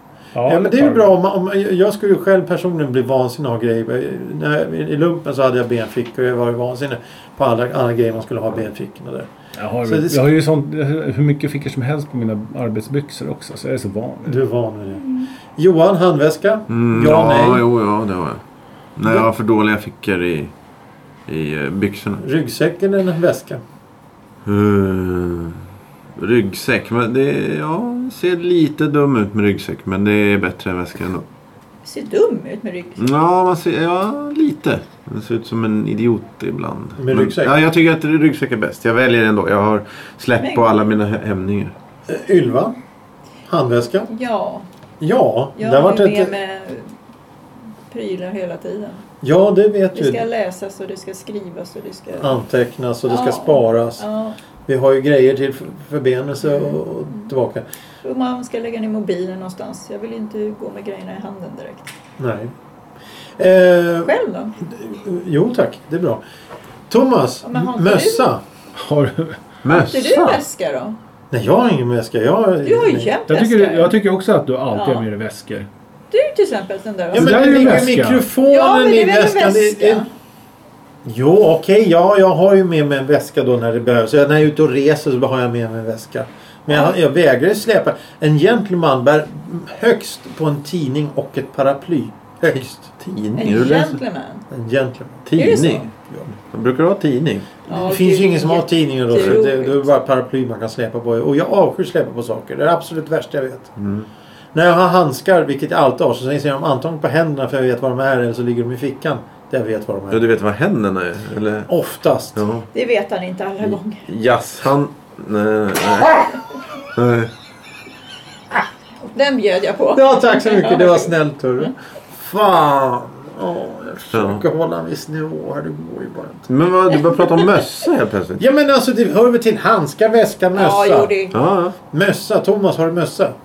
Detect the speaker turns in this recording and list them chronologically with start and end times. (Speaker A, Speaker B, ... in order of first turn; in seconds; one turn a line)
Speaker A: 0.3-1.1
Speaker B: 0.4-9.3
Speaker A: 9.6-14.4
Speaker B: 9.8-10.2
Speaker B: 14.2-15.0
Speaker C: 15.0-15.3
Speaker B: 15.6-17.6
Speaker D: 16.7-18.4
Speaker D: 18.9-20.5
Speaker D: 21.3-22.2
Speaker B: 22.2-23.6
Speaker D: 24.4-25.6
Speaker D: 26.2-31.2
Speaker C: 31.8-33.0
Speaker D: 33.0-41.7
Speaker B: 37.0-37.5
Speaker C: 40.4-40.7
Speaker B: 42.1-42.8
Speaker B: 43.5-44.1
Speaker C: 44.1-44.7
Speaker B: 45.0-46.3
Speaker C: 45.5-46.9
Speaker C: 47.9-49.0
Speaker B: 49.2-50.2
Speaker C: 49.9-52.4
Speaker B: 52.2-54.0
Speaker C: 53.1-54.4
Speaker B: 54.7-57.6
Speaker C: 56.4-57.3
Speaker C: 58.0-61.9
Speaker B: 62.2-62.5
Speaker B: 63.4-64.1
Speaker C: 64.0-64.5
Speaker B: 64.6-66.2
Speaker B: 66.9-68.4
Speaker C: 67.4-68.3
Speaker A: 68.8-69.4
Speaker D: 69.6-70.4
Speaker C: 69.7-71.0
Speaker B: 71.3-73.1
Speaker C: 72.6-73.9
Speaker A: 73.3-75.7
Speaker C: 74.7-75.1
Speaker C: 76.1-77.9
Speaker B: 77.1-80.0
Speaker A: 77.1-78.3
Speaker C: 78.4-80.1
Speaker B: 81.0-92.9
Speaker C: 86.7-86.9
Speaker D: 92.5-94.0
Speaker C: 93.3-94.4
Speaker B: 94.5-95.3
Speaker D: 95.2-95.9
Speaker C: 95.3-95.9
Speaker B: 96.0-96.3
Speaker D: 96.4-97.5
Speaker C: 97.7-99.9
Speaker B: 97.7-103.7
Speaker D: 103.8-104.1
Speaker B: 104.5-110.2
Speaker D: 110.1-111.7
Speaker B: 111.7-112.4
Speaker D: 112.3-112.7
Speaker C: 112.7-114.0
Speaker D: 113.6-116.3
Speaker D: 116.9-117.3
Speaker C: 119.0-121.7
Speaker B: 119.9-126.5
Speaker D: 124.1-124.4
Speaker D: 126.5-128.4
Speaker B: 128.4-131.2
Speaker C: 130.5-131.4
Speaker D: 131.3-131.7
Speaker B: 131.9-133.3